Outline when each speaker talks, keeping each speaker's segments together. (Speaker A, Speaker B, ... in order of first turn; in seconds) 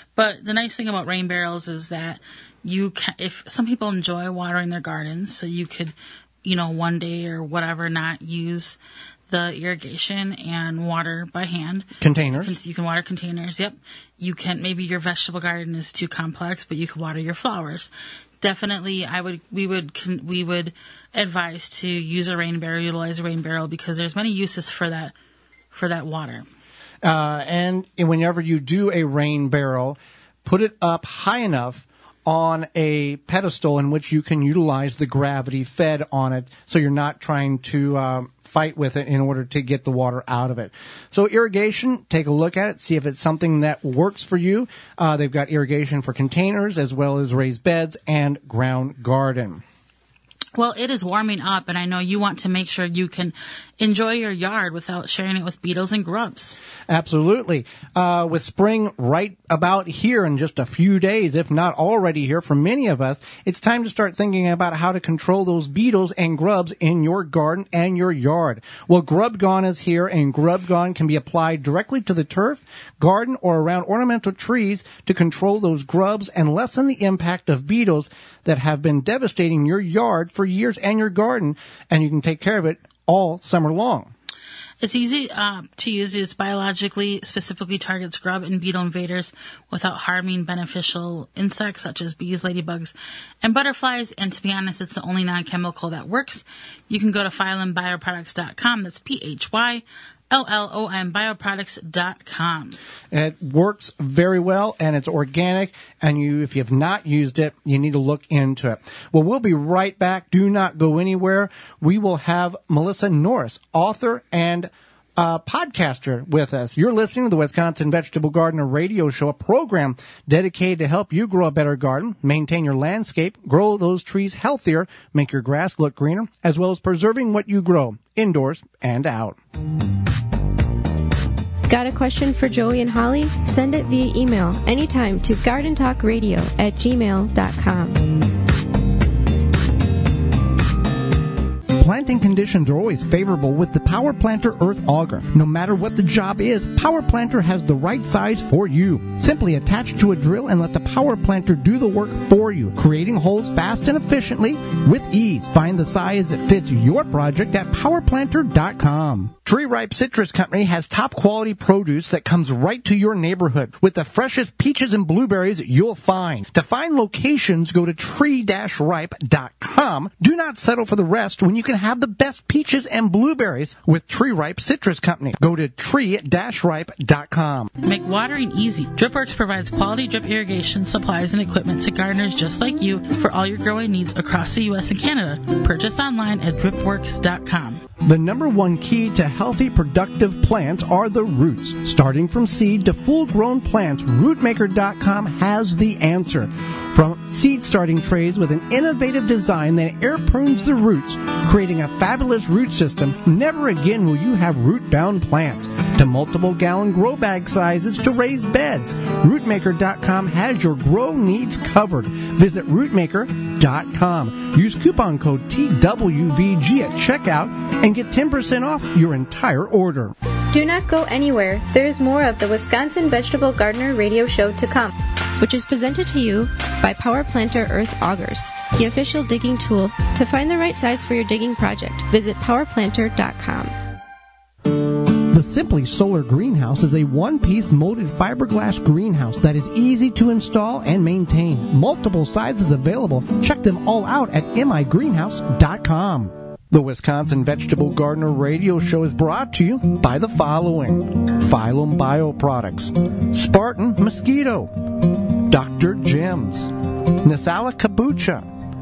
Speaker A: 0.2-5.9, 6.4-8.8, 9.3-17.9, 18.4-25.1, 25.7-26.4, 50.6-56.6, 84.8-102.8, 177.8-187.8
Speaker B: 12.0-12.6, 27.0-49.6, 56.9-84.1, 103.1-129.4, 141.7-177.7, 188.0-220.1, 235.3-258.5
Speaker C: 131.7-138.1, 220.5-233.7